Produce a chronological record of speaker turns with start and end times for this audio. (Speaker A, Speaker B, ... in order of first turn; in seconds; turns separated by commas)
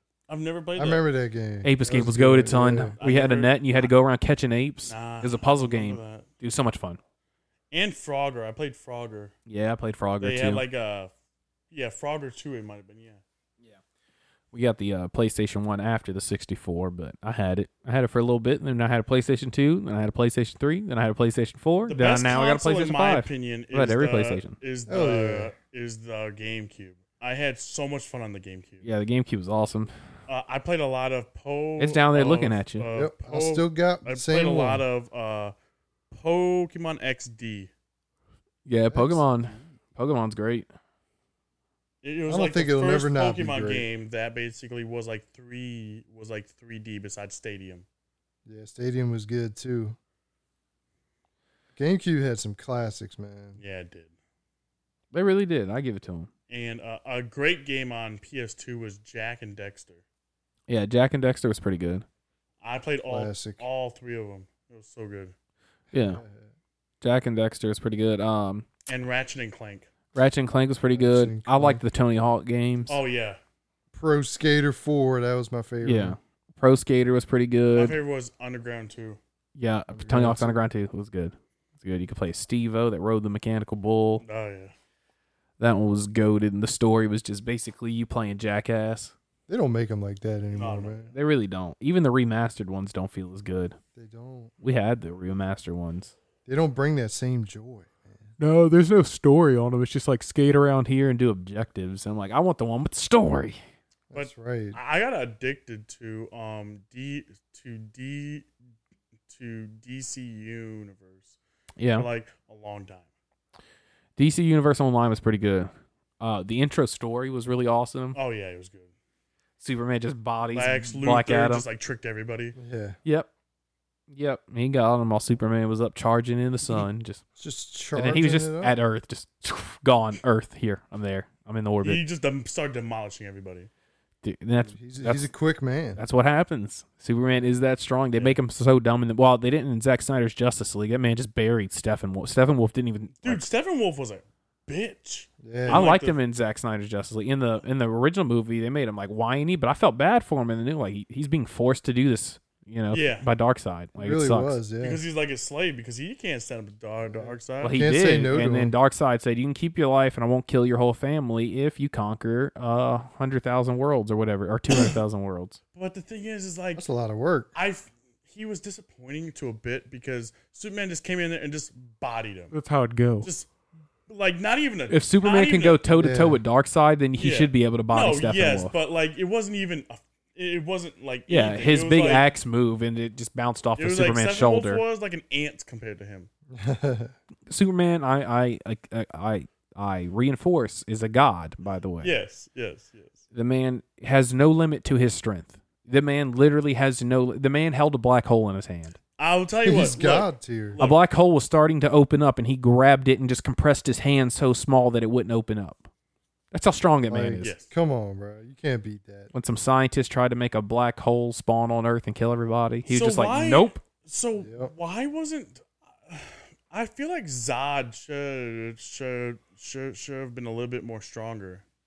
Speaker A: 0.3-1.0, Speaker B: 0.8-3.0, Speaker C: 1.6-7.0, Speaker A: 3.0-3.9, Speaker A: 4.9-6.3, Speaker A: 7.7-9.3, Speaker C: 9.5-10.7, Speaker A: 10.2-11.1, Speaker A: 11.7-13.2, Speaker C: 14.5-24.6, Speaker A: 21.9-28.9, Speaker B: 24.9-25.5, Speaker C: 28.8-29.9, Speaker A: 30.3-35.5, Speaker C: 31.8-32.9, Speaker B: 32.9-34.8, Speaker A: 36.1-37.7, Speaker C: 38.7-40.7, Speaker B: 38.9-39.3, Speaker A: 42.0-47.9, Speaker B: 42.3-43.9, Speaker B: 48.5-50.0, Speaker B: 51.8-53.6, Speaker A: 53.6-54.1, Speaker C: 55.1-56.3, Speaker A: 56.5-60.0, Speaker C: 60.7-62.0, Speaker A: 62.6-65.3, Speaker B: 63.1-63.6, Speaker C: 65.9-66.2, Speaker B: 65.9-66.5, Speaker C: 67.0-68.7, Speaker A: 68.9-69.9, Speaker C: 70.2-73.0, Speaker B: 70.9-71.8, Speaker A: 72.9-73.4, Speaker B: 73.9-76.2, Speaker C: 75.8-78.0, Speaker A: 77.7-79.2, Speaker C: 79.6-84.2, Speaker B: 79.9-80.6, Speaker A: 84.2-84.7, Speaker C: 85.6-89.1, Speaker B: 89.5-91.1, Speaker A: 90.5-91.1, Speaker C: 91.1-93.8, Speaker B: 94.0-94.5, Speaker C: 94.6-96.1, Speaker B: 96.5-98.3, Speaker C: 98.4-103.6, Speaker B: 104.1-104.8, Speaker A: 104.1-108.5, Speaker A: 109.3-111.4, Speaker C: 111.8-112.1, Speaker A: 111.9-113.1, Speaker C: 114.2-118.2, Speaker A: 118.1-118.9, Speaker C: 119.6-121.7, Speaker A: 120.5-122.6, Speaker B: 122.6-123.0, Speaker C: 124.1-127.2, Speaker B: 127.4-128.8, Speaker C: 127.9-132.0, Speaker A: 131.8-133.7, Speaker C: 134.2-135.3, Speaker B: 134.6-136.0, Speaker C: 136.0-143.4, Speaker A: 143.2-146.2, Speaker B: 145.4-145.9, Speaker C: 145.7-154.6, Speaker A: 152.9-153.3, Speaker B: 154.0-155.0, Speaker A: 154.8-157.8, Speaker B: 157.1-158.7, Speaker C: 157.6-165.6, Speaker A: 165.8-166.8, Speaker B: 166.8-167.5, Speaker A: 167.6-172.5, Speaker C: 172.5-173.3, Speaker A: 173.2-173.5, Speaker A: 174.1-175.8, Speaker C: 174.9-178.7, Speaker B: 175.9-176.4, Speaker A: 177.2-182.3, Speaker C: 181.3-184.8, Speaker A: 183.8-186.3, Speaker B: 186.5-187.1, Speaker C: 187.5-192.2, Speaker A: 192.0-193.2, Speaker C: 193.3-199.0, Speaker A: 199.2-201.0, Speaker B: 199.6-200.8, Speaker C: 200.8-205.9, Speaker C: 206.5-207.5, Speaker B: 207.1-209.3, Speaker A: 207.4-207.7, Speaker C: 209.3-213.8, Speaker A: 212.9-221.6, Speaker B: 214.4-214.7